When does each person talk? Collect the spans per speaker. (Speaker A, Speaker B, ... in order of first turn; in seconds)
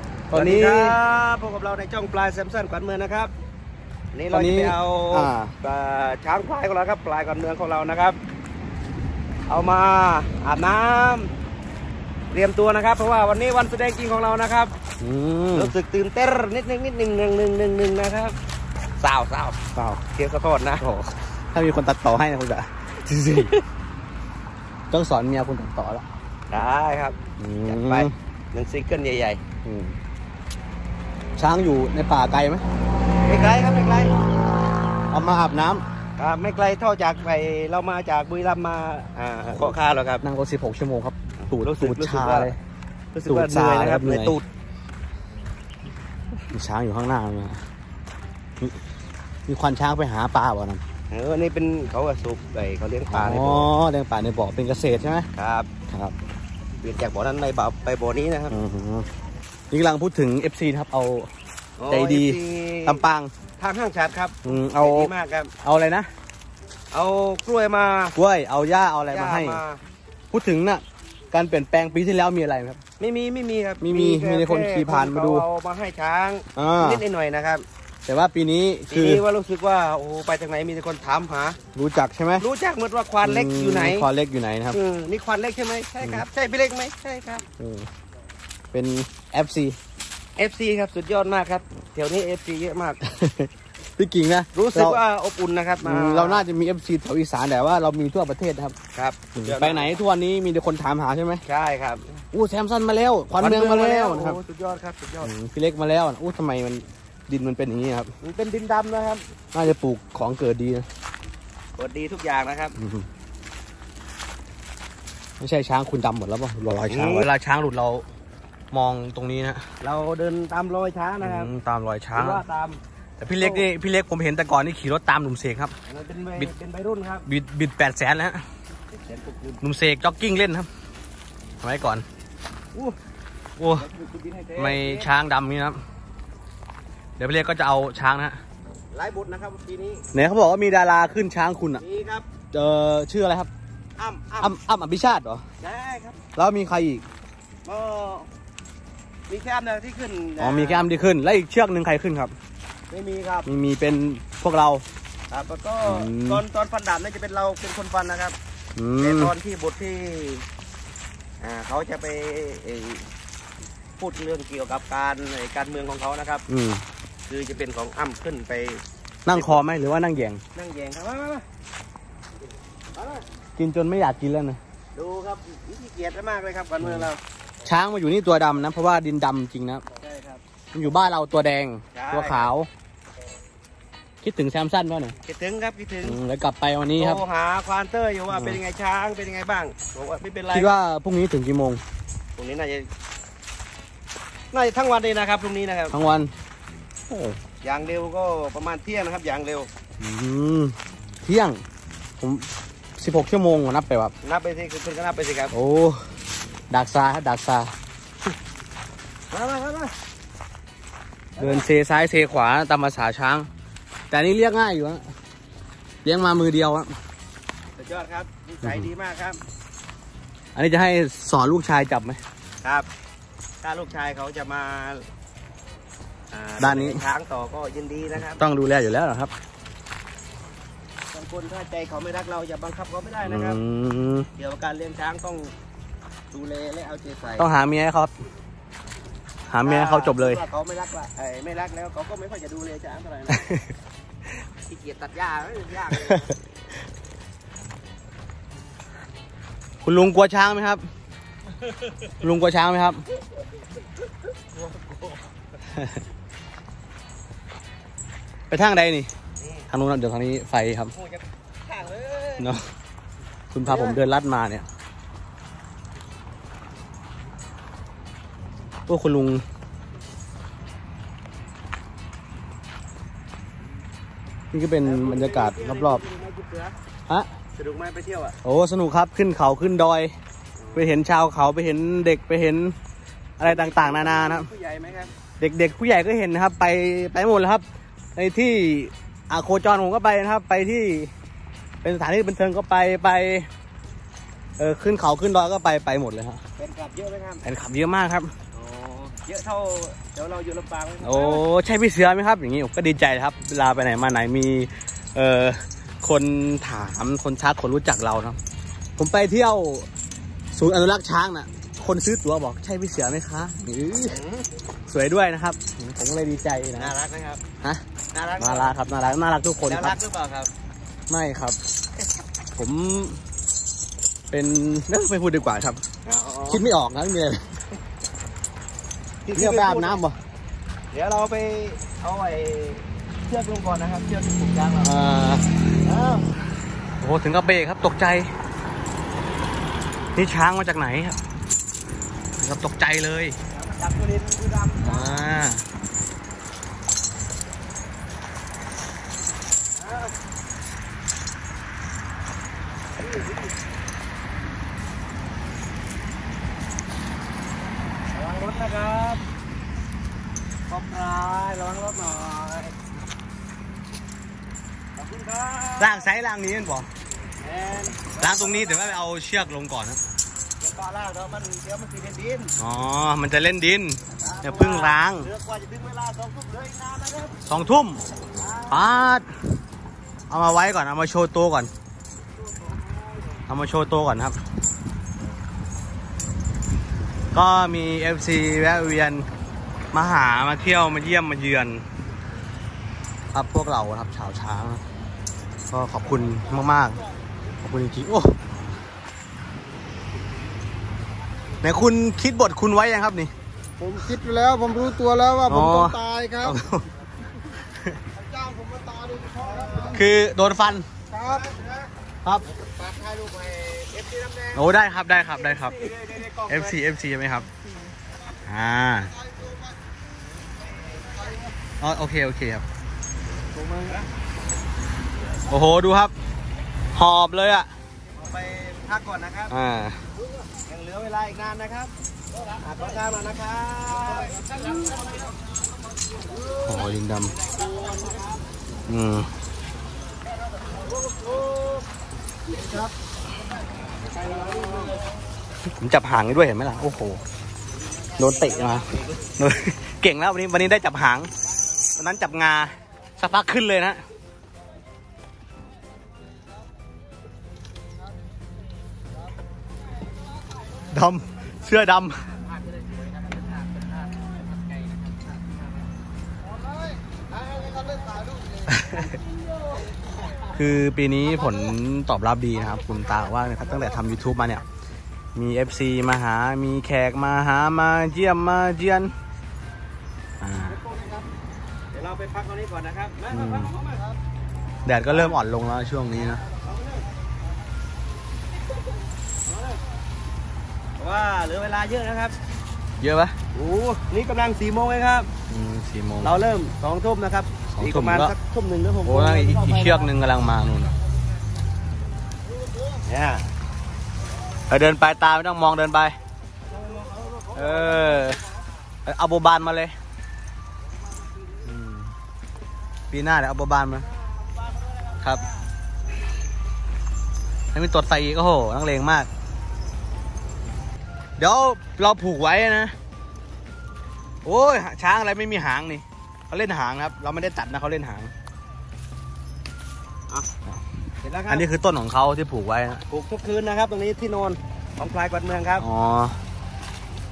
Speaker A: 0.3-1.0, 4.3-5.5, 15.0-15.7, 20.8-23.5, 24.9-26.1, 27.4-28.1, 29.6-30.0, 31.4-32.6, 35.1-35.8, 39.6-42.6, 43.3-44.4, 46.5-47.6, 49.5-50.8, 53.1-55.3, 58.5-59.1, 59.7-61.3, 61.9-63.3, 64.5-65.1, 65.6-66.1, 68.2-69.6, 70.3-72.8, 73.8-75.5, 76.6-77.0, 78.1-79.2, 81.8-82.4, 83.2-84.8, 87.6-87.9, 88.7-89.8, 93.0-95.0, 95.8-98.8, 99.4-101.4, 102.3-104.4, 105.2-108.1, 109.5-110.9, 112.8-113.1, 115.4-118.1, 118.7-119.6, 121.2-122.4, 123.2-125.7, 127.3-128.4, 129.6-130.7, 131.6-132.1, 133.6-133.9, 134.6-135.8, 137.2-138.4, 140.1-141.8, 142.5-143.5, 144.4-145.4, 146.4-147.1, 150.4-152.3, 153.5-154.8, 155.8-156.4, 158.8-159.3, 166.5-166.8, 169.3-170.4, 173.6-174.6, 176.8-177.1, 177.7-179.8, 180.7-182.7, 184.2-185.2, 186.0-187.2, 188.3-188.6, 190.5-191.8, 195.9-196.3, 197.1-197.4, 200.0-201.6, 202.2-204.1, 205.5-206.0, 206.7-207.7, 211.4-213.5, 214.1-215.0, 216.0-216.9, 220.6-222.2, 226.6-227.0, 228.4-229.3, 233.2-234.3, 237.4-238.1, 239.5-240.4, 243.4-243.6, 249.8-250.8, 252.2-253.0, 258.5-259.1, 259.7-260.9, 263.5-264.7, 268.9-269.4, 274.5-276.0, 278.4-280.1, 280.8-282.8, 283.4-284.5, 285.4-287.6, 288.1-291.1, 291.8-293.5, 294.6-296.4, 297.4-298.3, 301.0-308.4, 309.0-309.9, 310.5-314.2, 314.9-316.9, 318.4-320.0, 321.1-321.6, 322.6-323.2, 324.3-325.8, 326.5-327.5, 329.3-330.2, 334.8-335.5, 337.0-338.3, 340.1-341.2, 342.4-343.4, 344.8-345.6, 365.8-366.9, 368.2-370.0, 372.6-375.3, 377.5-378.0, 378.7-379.3, 380.3-381.7, 383.5-384.4, 387.3-389.3, 389.9-391.9, 393.3-394.8, 395.7-397.0, 397.6-398.4, 401.6-403.3, 405.5-406.9, 407.6-408.0, 409.9-410.9, 414.6-415.8, 416.5-417.5, 418.5-419.1, 421.8-422.6, 425.5-426.1, 426.9-427.7, 429.5-430.0, 436.6-437.3, 438.9-439.3, 445.8-447.2, 448.2-451.3, 452.0-454.0, 460.9-462.3, 468.7-469.1, 470.5-474.6, 475.4-479.1, 480.4-480.8, 483.3-483.7, 484.9-486.4, 493.0-493.4, 495.5-496.4, 497.7-498.3, 499.1-500.9, 504.7-506.2, 507.6-508.4, 509.1-509.9, 511.6-512.1, 513.1-514.1, 517.7-519.3, 521.4-522.9, 524.5-528.3, 531.5-533.0, 535.8-536.4
Speaker B: 0.3-3.3, 4.1-8.2, 9.5-11.3, 12.3-14.7, 15.5-18.4, 19.0-19.6, 20.1-20.8, 26.5-29.4, 33.3-34.1, 36.2-40.2, 41.5-42.5, 43.1-44.5, 51.1-53.7, 55.4-55.7, 56.8-58.6, 61.8-63.0, 63.6-65.5, 66.9-68.2, 69.1-69.8, 73.0-77.7, 78.9-81.6, 82.4-84.1, 84.7-87.5, 90.4-93.0, 94.5-96.5, 99.0-100.0, 101.5-102.2, 103.4-105.3, 108.2-109.2, 111.8-112.7, 116.9-117.3, 119.8-121.5, 122.2-122.8, 123.4-123.7, 125.9-127.3, 129.0-129.6, 133.8-135.1, 138.9-140.1, 141.8-142.3, 144.0-144.6, 145.6-146.2, 147.7-148.3, 149.3-150.9, 152.9-153.5, 155.3-158.4, 159.0-160.5, 161.4-163.1, 164.0-166.4, 167.3-168.8, 169.3-169.6, 170.6-171.4, 173.0-173.2, 174.9-177.2, 180.0-180.4, 181.9-182.5, 185.2-186.2, 187.0-190.7, 192.4-192.9, 194.5-196.0, 197.6-199.7, 204.2-205.5, 209.3-209.9, 211.4-211.7, 217.8-219.4, 223.6-225.1, 226.3-228.4, 231.1-233.6, 234.4-235.5, 236.3-237.5, 239.6-243.5, 244.7-246.3, 254.6-255.2, 259.4-259.7, 260.9-262.5, 263.7-264.0, 274.8-276.8, 277.6-278.4, 280.6-281.0, 283.4-285.1, 296.6-297.4, 298.5-301.4, 314.1-314.5, 316.8-317.4, 318.1-318.8, 319.6-320.5, 326.1-326.6, 329.3-330.0, 330.9-334.9, 335.8-336.3, 343.5-345.1, 349.8-350.1, 353.0-353.5, 358.1-359.2, 360.7-362.8, 365.0-366.1, 367.4-369.0, 370.6-372.6, 374.2-377.4, 378.4-378.9, 382.4-383.4, 409.2-410.0, 411.1-411.9, 412.5-414.6, 415.4-416.8, 420.4-421.5, 423.5-424.1, 428.1-429.6, 430.7-431.9, 432.5-435.1, 436.3-438.4, 440.8-441.8, 444.1-445.0, 448.2-449.2, 462.3-465.6, 480.7-481.3, 481.9-484.1, 486.4-487.1, 489.5-489.8, 491.0-492.4, 493.5-495.3, 496.2-500.1, 503.1-503.5, 506.7-508.4, 514.7-515.2, 531.2-531.7, 533.1-535.9
Speaker C: 403.8-406.6, 408.6-409.3